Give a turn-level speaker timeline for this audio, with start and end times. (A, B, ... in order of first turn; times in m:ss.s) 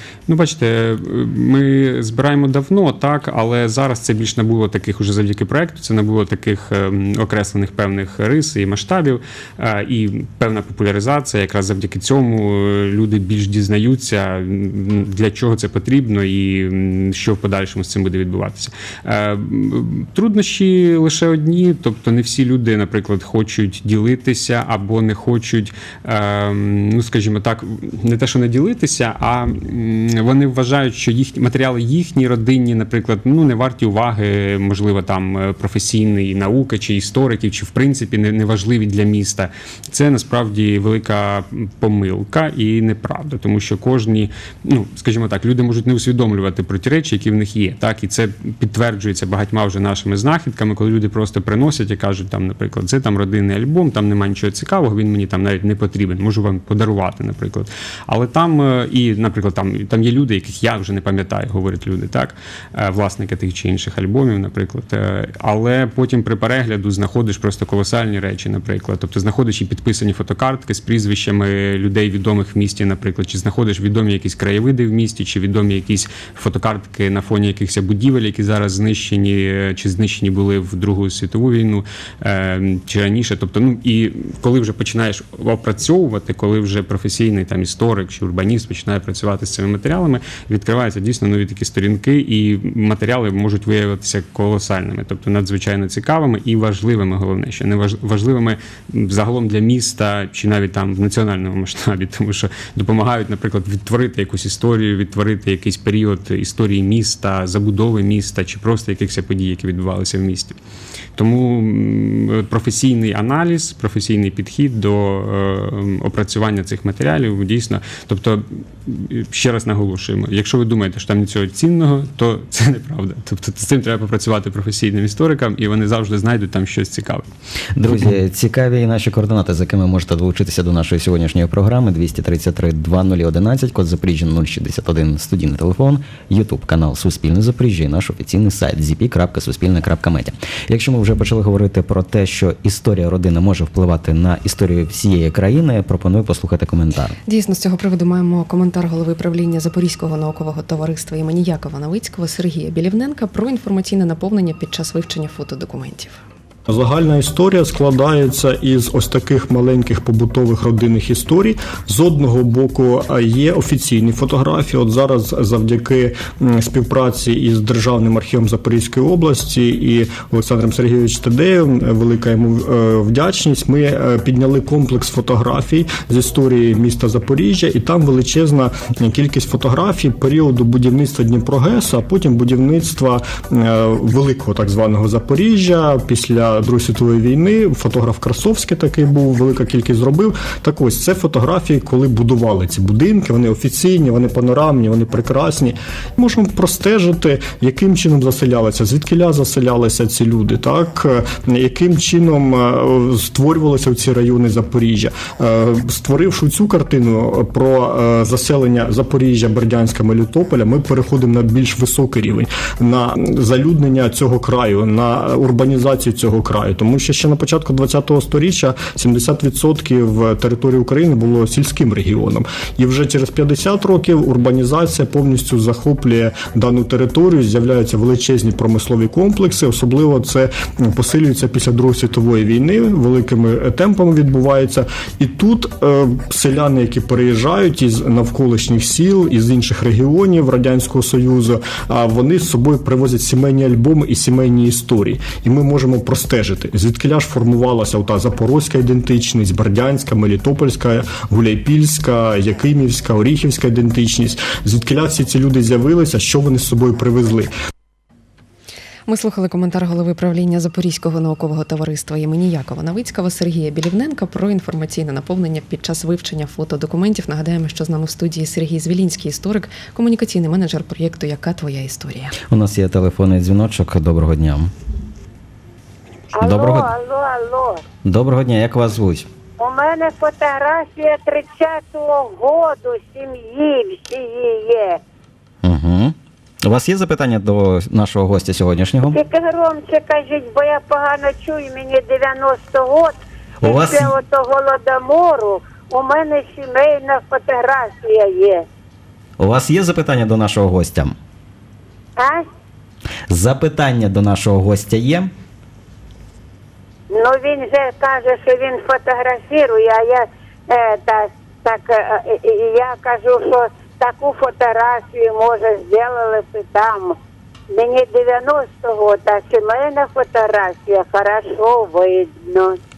0:00.3-1:50.6 A
1:51.2-2:07.2 A
2:07.8-2:27.2 B
2:27.3-2:36.2 C
2:36.7-4:17.5 D
4:19.1-4:32.4 C
4:32.5-4:34.7 B
4:36.4-4:37.8 E
4:36.4-4:36.9 B
4:38.0-4:39.3 B
4:39.6-4:45.0 E
4:45.6-4:49.2 B
4:49.1-4:58.6 E
4:53.6-4:54.2 B
4:59.4-5:01.2 B
5:02.2-5:02.5 E
5:03.3-5:05.3 B
5:07.1-5:17.2 E
5:17.7-5:22.8 E